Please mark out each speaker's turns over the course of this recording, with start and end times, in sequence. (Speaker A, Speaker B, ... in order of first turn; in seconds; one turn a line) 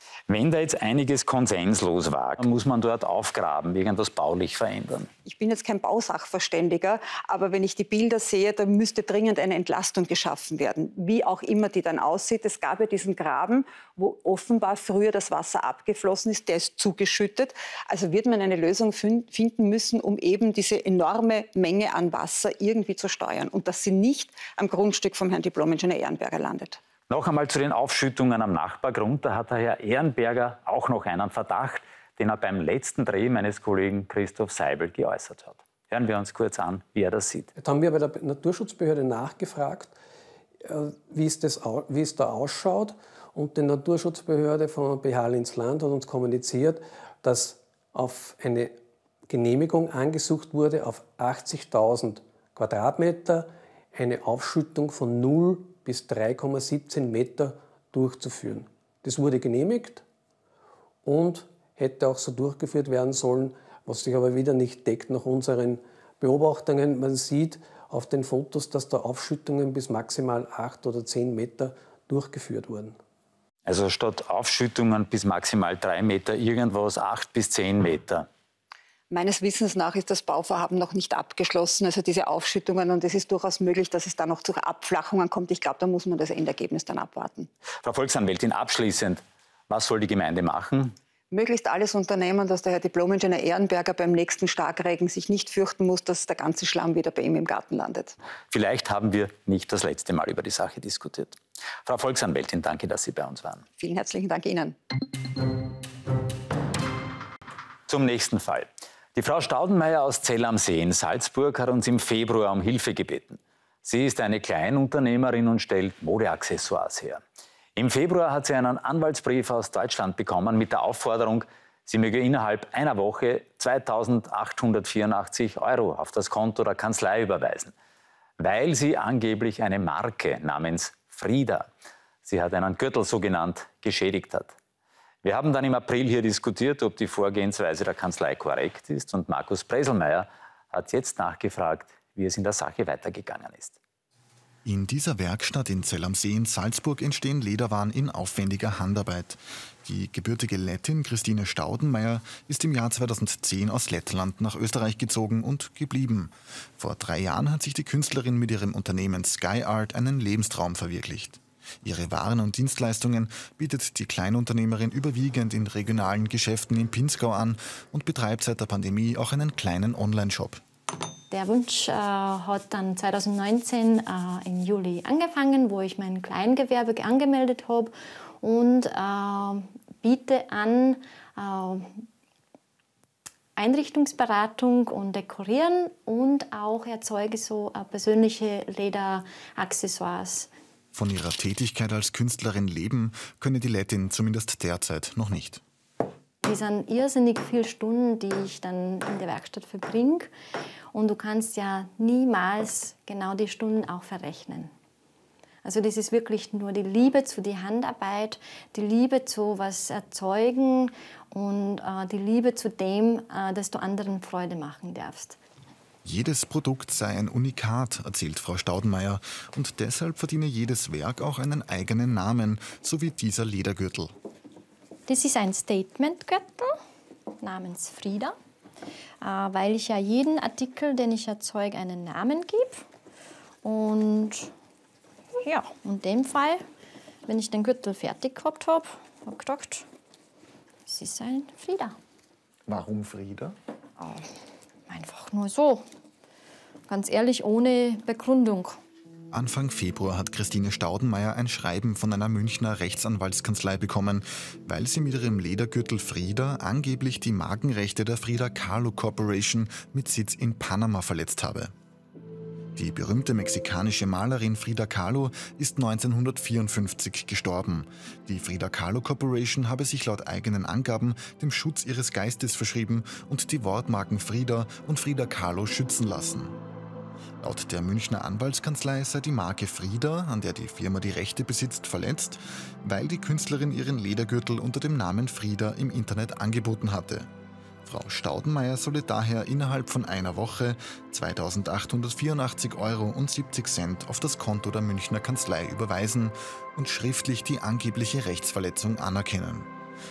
Speaker A: 0.3-5.1
Speaker B: 5.2-26.8
Speaker A: 27.1-37.5
Speaker C: 37.6-39.9
Speaker C: 40.6-48.8
Speaker C: 49.3-60.0
Speaker C: 61.0-73.0
Speaker A: 73.7-78.3
Speaker B: 79.1-87.5
Speaker A: 87.8-90.9
Speaker B: 91.3-98.1
Speaker A: 98.5-103.6
Speaker B: 103.8-104.8
Speaker A: 107.9-117.2
Speaker A: 117.8-127.7
Speaker A: 128.4-131.7
Speaker A: 132.2-134.5
Speaker A: 135.2-143.8
Speaker D: 144.6-170.6
Speaker E: 171.3-182.0
Speaker E: 183.6-190.5
Speaker D: 190.9-195.6
Speaker E: 196.4-200.3
Speaker E: 200.9-204.7
Speaker E: 205.6-215.4
Speaker D: 216.0-224.1
Speaker E: 225.1-226.8
Speaker E: 227.4-228.3
Speaker E: 229.2-232.8
Speaker E: 233.6-234.5
Speaker E: 235.4-236.6
Speaker E: 237.2-239.8
Speaker E: 240.9-241.9
Speaker D: 242.7-243.5
Speaker E: 244.0-244.3
Speaker E: 244.9-245.8
Speaker E: 246.9-248.8
Speaker D: 249.3-261.7
Speaker D: 262.8-276.6
Speaker D: 277.4-287.3
Speaker D: 287.8-299.7